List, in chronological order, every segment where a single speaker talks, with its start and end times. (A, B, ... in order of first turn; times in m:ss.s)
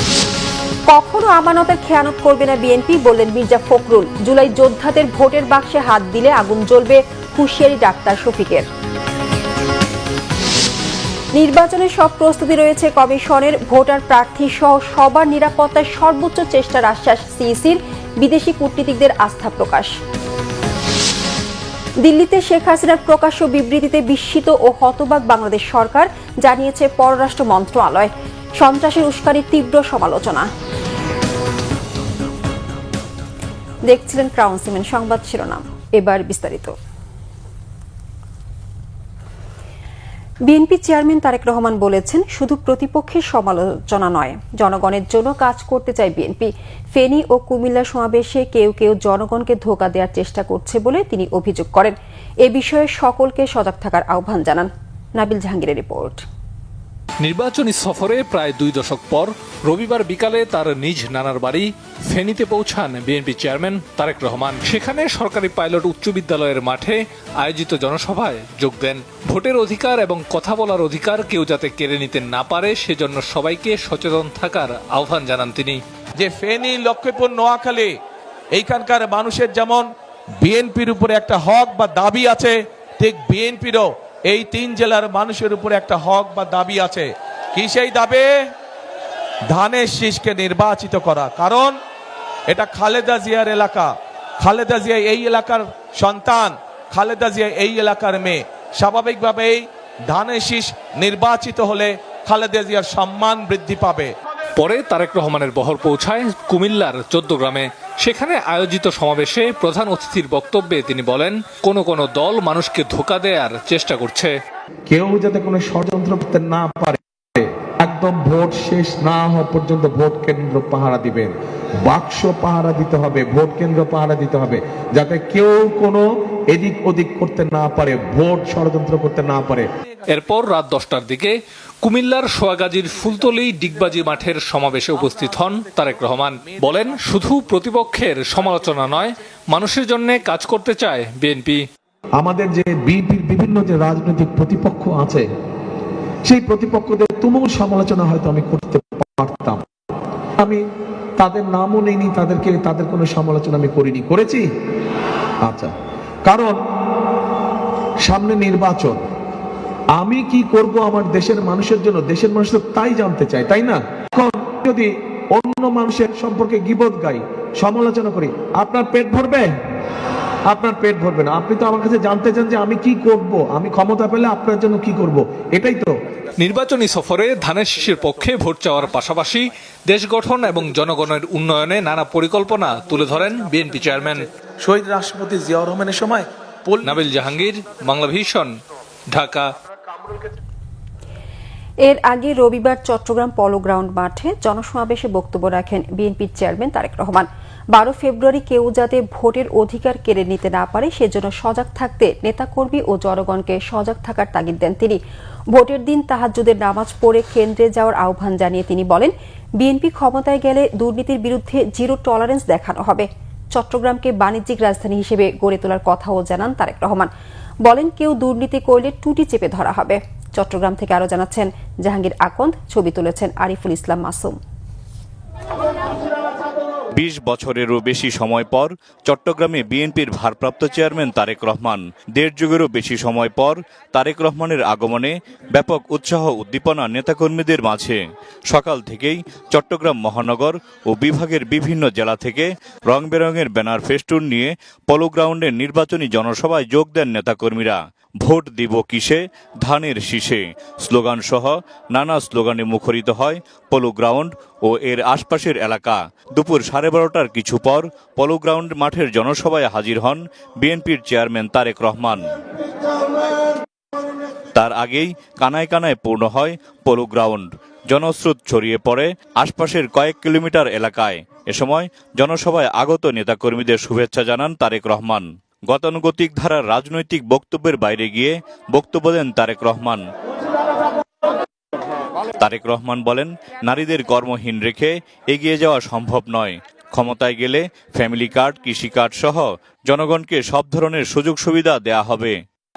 0:00.9-0:08.6 A
0:11.3-0:19.9 A
0:22.0-0:30.5 A
0:33.9-0:36.7 A
0:40.5-0:56.2 A
0:57.2-1:15.8 B
1:16.2-1:17.9 C
1:18.5-1:19.9 C
1:20.4-1:28.3 C
1:29.5-1:31.7 C
1:32.5-1:44.1 C
1:44.6-1:54.3 B
1:54.9-2:09.7 D
2:10.1-2:21.6 B
2:22.2-2:25.2 D
2:26.2-2:29.6 D
2:31.2-2:34.4 D
2:35.4-2:35.7 D
2:36.2-2:36.6 D
2:38.0-2:39.0 D
2:40.0-2:49.5 D
2:50.5-2:55.9 D
2:56.4-3:04.2 B
3:04.6-3:07.0 D
3:06.8-3:08.5 B
3:09.1-3:09.5 B
3:11.8-3:25.0 A
3:25.5-3:37.1 A
3:37.6-3:44.4 A
3:46.9-4:22.3 E
4:24.5-4:40.0 E
4:42.4-4:52.4 E